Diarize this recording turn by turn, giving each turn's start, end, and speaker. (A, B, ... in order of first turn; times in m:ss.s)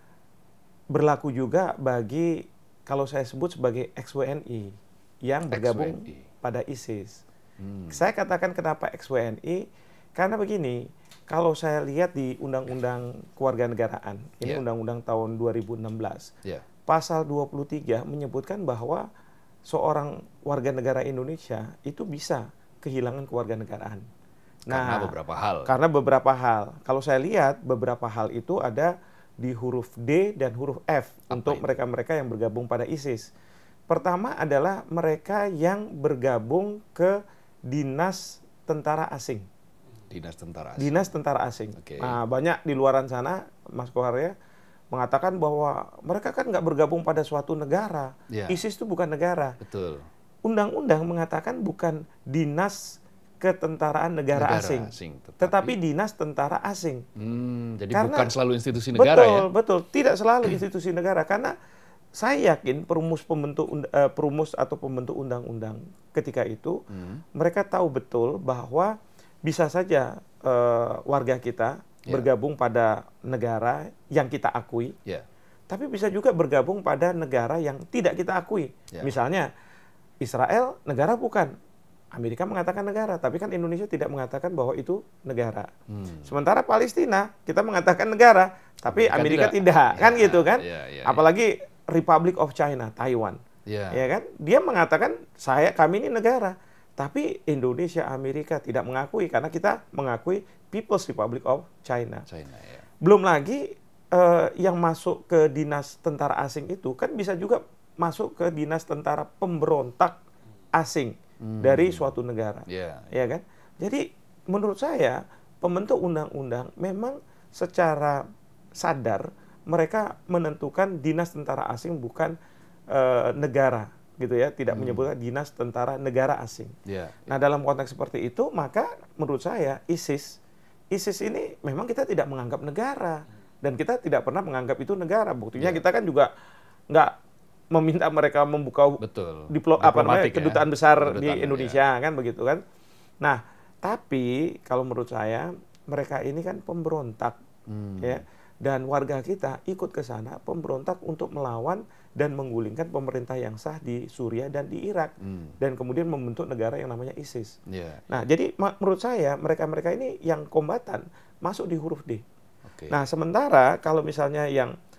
0:00.9-0:04.7 A
0:05.2-0:07.2 A
0:05.5-0:06.2 B
0:07.6-0:08.0 B
0:07.9-0:16.3 A
0:16.9-0:19.0 A
0:19.6-0:24.1 A
0:24.7-0:25.7 B
0:24.7-0:25.1 A
0:25.6-0:33.3 A
0:31.3-0:31.7 B
0:33.9-0:37.1 A
0:37.7-0:39.4 A
0:40.1-0:41.1 B
0:40.8-0:44.3 A
0:41.8-0:42.2 B
0:44.9-0:49.6 A
0:48.3-0:48.6 B
0:49.6-0:50.1 B
0:50.4-0:57.0 A
0:54.3-0:55.8 B
0:57.2-0:59.5 B
0:57.9-0:58.3 A
0:58.9-1:01.5 A
1:02.2-1:06.8 A
1:06.9-1:07.2 B
1:07.3-1:08.9 A
1:09.4-1:14.9 A
1:15.7-1:19.5 A
1:20.2-1:21.5 A
1:22.1-1:25.7 A
1:25.9-1:26.3 B
1:26.2-1:33.4 A
1:28.9-1:31.2 B
1:33.7-1:34.0 B
1:33.9-1:42.2 A
1:42.3-1:42.8 B
1:43.0-1:50.2 A
1:50.7-1:58.2 A
1:51.4-1:52.1 B
1:52.7-1:53.1 B
1:58.8-2:02.3 A
2:02.9-2:06.7 A
2:04.7-2:05.1 B
2:06.8-2:07.3 B
2:07.3-2:10.4 A
2:10.9-2:16.3 A
2:15.6-2:15.8 B
2:17.7-2:22.6 A
2:19.0-2:21.8 B
2:23.2-2:27.4 A
2:27.7-2:28.2 B
2:28.0-2:37.6 A
2:35.2-2:35.5 B
2:37.7-2:38.0 B
2:38.1-2:42.2 A
2:42.6-2:43.0 B
2:42.9-2:44.7 A